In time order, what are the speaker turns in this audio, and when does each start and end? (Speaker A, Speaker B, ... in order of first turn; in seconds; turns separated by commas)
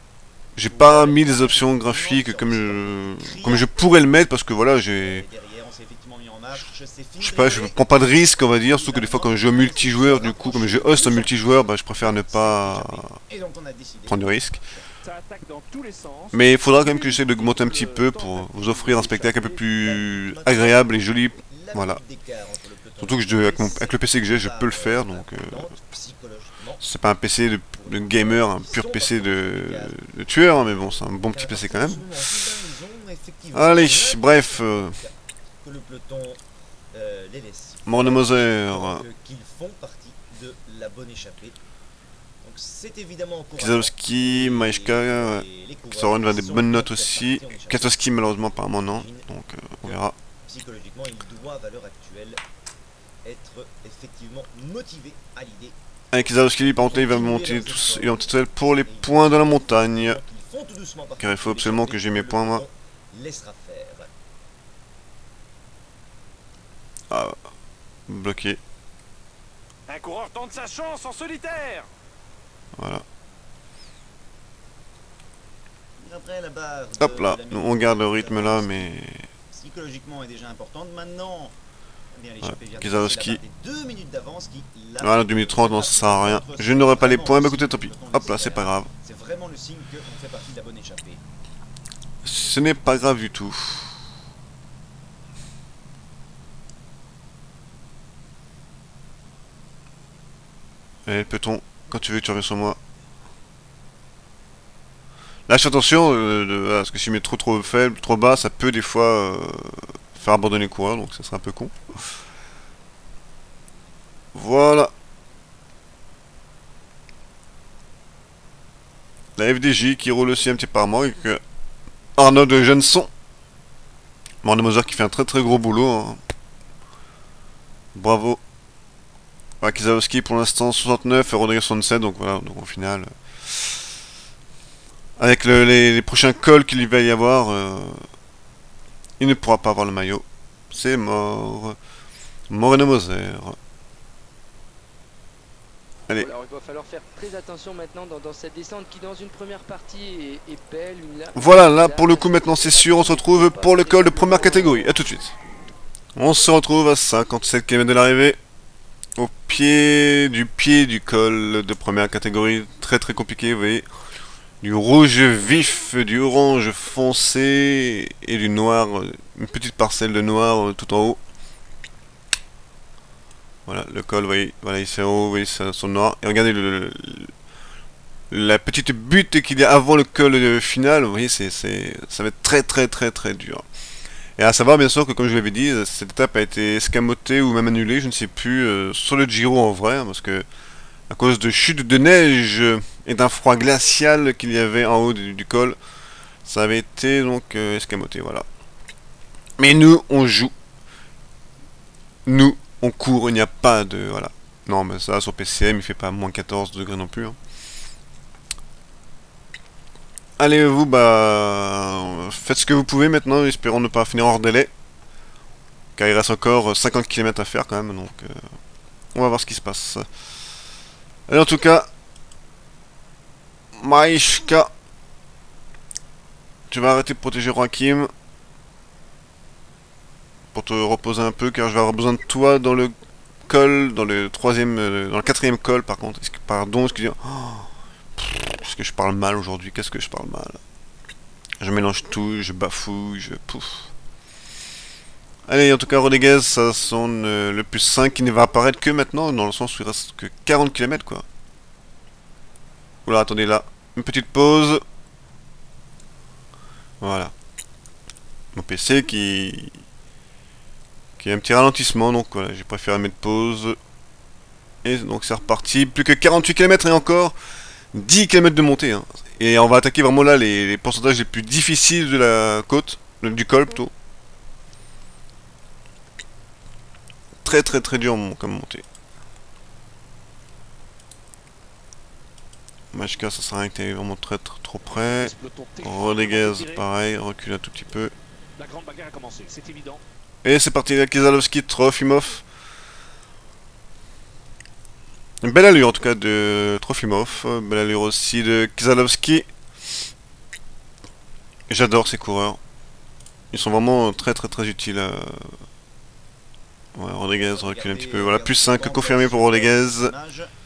Speaker A: 0.6-5.2, Speaker B: 0.7-3.7, Speaker B: 4.9-7.9, Speaker A: 7.2-13.1, Speaker B: 8.4-14.8, Speaker A: 14.1-14.6, Speaker C: 15.0-19.5, Speaker A: 16.3-22.0, Speaker B: 19.6-26.8, Speaker A: 23.0-25.7, Speaker A: 26.8-32.1, Speaker B: 27.8-36.4, Speaker A: 33.5-35.0, Speaker B: 36.9-41.6, Speaker A: 37.9-39.0, Speaker B: 42.4-48.0, Speaker A: 43.6-50.1, Speaker B: 48.9-49.3, Speaker B: 49.8-52.4, Speaker B: 53.2-55.8, Speaker A: 56.1-60.2, Speaker B: 56.8-64.1, Speaker A: 61.2-62.6, Speaker A: 67.1-67.4, Speaker A: 68.1-68.6, Speaker D: 69.9-71.9, Speaker A: 72.8-73.0, Speaker B: 76.0-78.9, Speaker A: 77.0-79.3, Speaker B: 79.5-81.5, Speaker B: 82.1-91.2, Speaker A: 82.4-83.4, Speaker A: 85.0-88.9, Speaker A: 92.2-93.9, Speaker A: 101.1-102.8, Speaker A: 105.5-111.7, Speaker A: 114.3-114.9, Speaker A: 119.4-121.4, Speaker A: 122.2-123.1, Speaker A: 124.4-126.2, Speaker A: 128.0-128.4, Speaker A: 129.6-133.8, Speaker A: 135.2-138.0, Speaker A: 139.2-141.8, Speaker A: 142.5-143.6, Speaker E: 146.1-155.0, Speaker A: 151.3-155.3, Speaker A: 156.2-158.4, Speaker A: 159.2-163.9, Speaker A: 164.6-171.2, Speaker A: 173.7-177.3, Speaker A: 178.3-183.7, Speaker A: 184.4-190.5, Speaker A: 191.1-195.8, Speaker A: 196.4-198.5, Speaker A: 199.6-200.5, Speaker A: 202.3-207.4, Speaker A: 210.4-214.7, Speaker A: 216.0-218.4, Speaker A: 219.1-220.1, Speaker A: 221.3-221.9, Speaker A: 223.8-224.7, Speaker A: 226.7-228.1, Speaker A: 230.5-232.9, Speaker A: 233.4-240.6, Speaker A: 241.6-243.9, Speaker A: 245.5-251.2, Speaker A: 253.1-254.8, Speaker A: 257.0-257.3, Speaker A: 258.5-259.8, Speaker A: 261.2-263.8, Speaker A: 264.8-267.4, Speaker A: 267.9-273.9, Speaker A: 277.4-278.9, Speaker A: 282.9-288.1, Speaker C: 284.9-286.8, Speaker C: 288.6-290.0, Speaker A: 290.4-292.4, Speaker A: 295.4-299.5, Speaker A: 301.7-302.6, Speaker A: 303.5-305.5, Speaker A: 306.9-310.1, Speaker B: 307.3-310.5